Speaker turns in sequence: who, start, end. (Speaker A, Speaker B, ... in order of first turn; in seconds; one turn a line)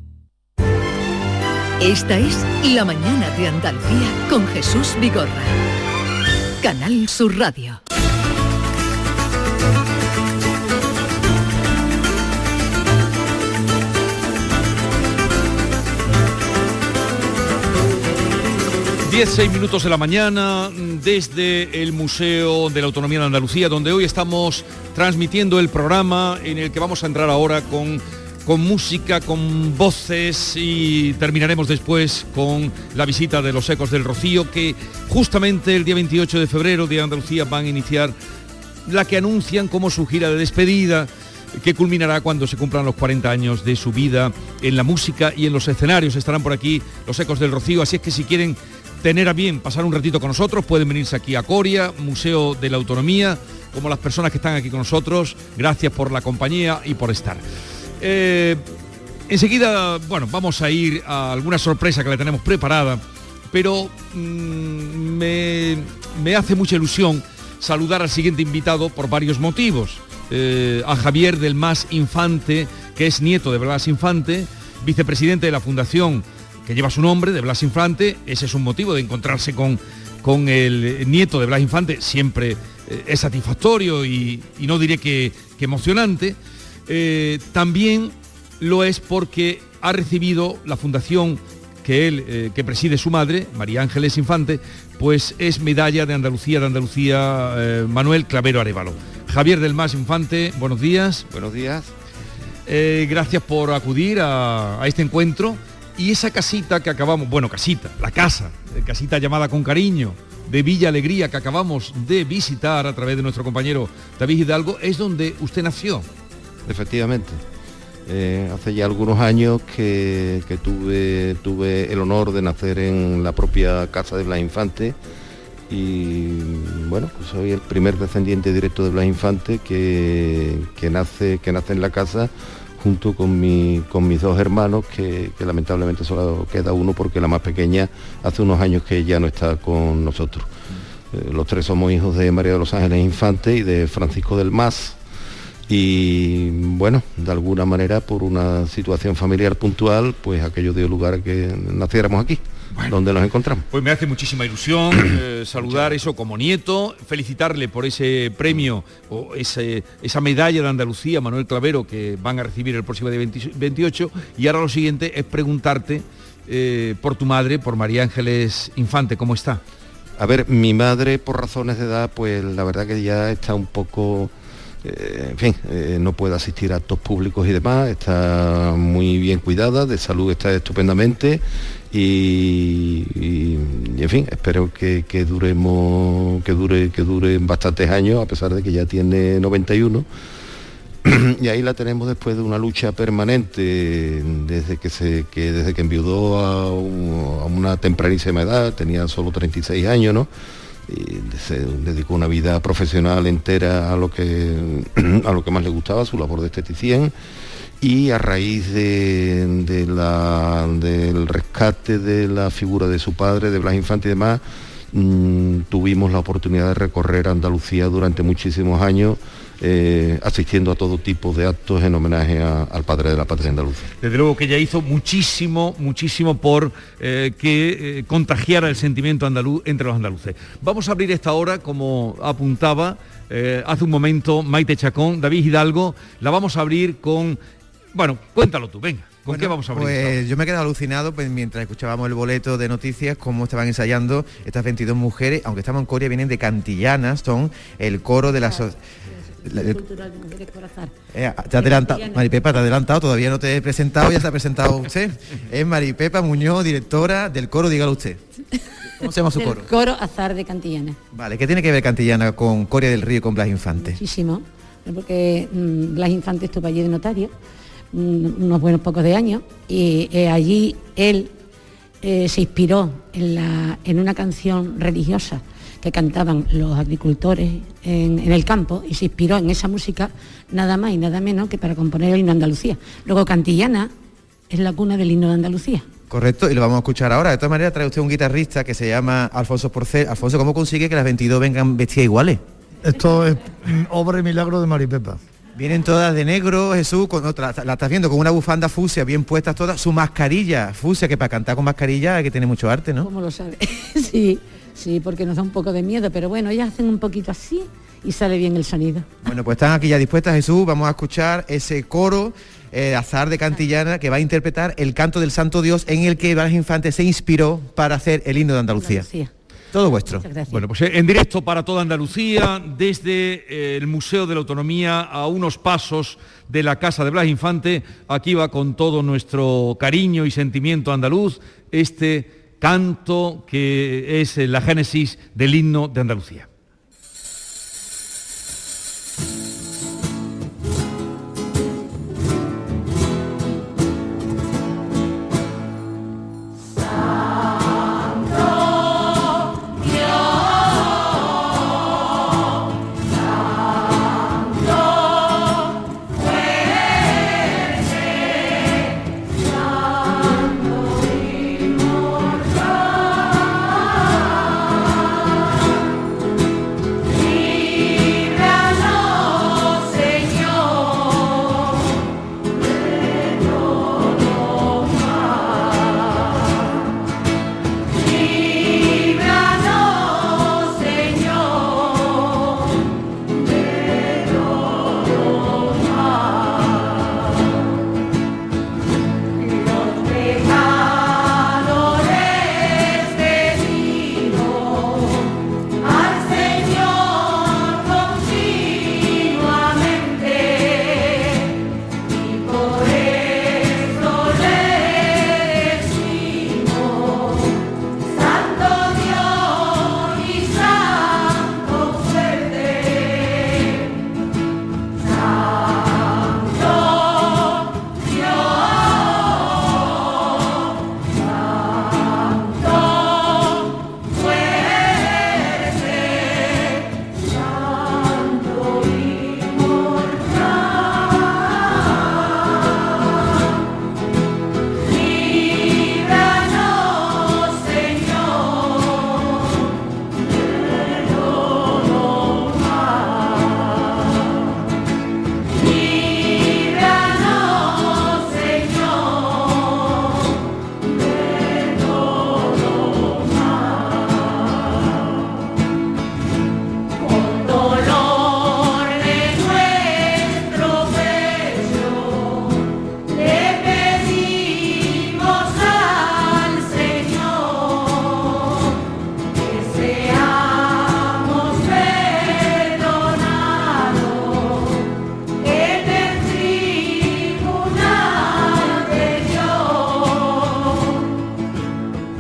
Speaker A: 1.8-5.6
Speaker A: 6.6-7.8
Speaker B: 19.1-38.1
Speaker B: 38.9-57.4
Speaker B: 58.0-58.6
Speaker B: 59.3-101.3
Speaker C: 101.3-101.9
Speaker B: 102.7-116.1
Speaker C: 116.6-117.4
Speaker C: 118.0-125.0
Speaker C: 125.7-140.5
Speaker C: 141.1-145.0
Speaker C: 145.7-153.7
Speaker B: 153.7-169.6
Speaker C: 155.6-156.0
Speaker C: 170.2-190.1
Speaker C: 191.0-200.3
Speaker C: 200.9-207.1
Speaker C: 207.8-223.9
Speaker B: 224.0-237.4
Speaker B: 237.9-240.2
Speaker D: 239.3-248.8
Speaker D: 249.4-249.8
Speaker E: 249.5-250.9
Speaker D: 251.1-258.2
Speaker E: 251.5-252.3
Speaker D: 259.0-259.7
Speaker E: 259.3-261.0
Speaker D: 261.1-264.0
Speaker E: 263.8-267.3
Speaker E: 267.9-271.3
Speaker E: 272.0-283.9
Speaker E: 284.5-285.9
Speaker D: 286.1-292.4
Speaker F: 292.8-295.2
Speaker D: 295.6-303.1
Speaker E: 303.0-309.1
Speaker D: 309.2-319.1
Speaker E: 318.8-319.3
Speaker D: 319.7-320.2
Speaker E: 320.2-320.6
Speaker B: 320.5-336.5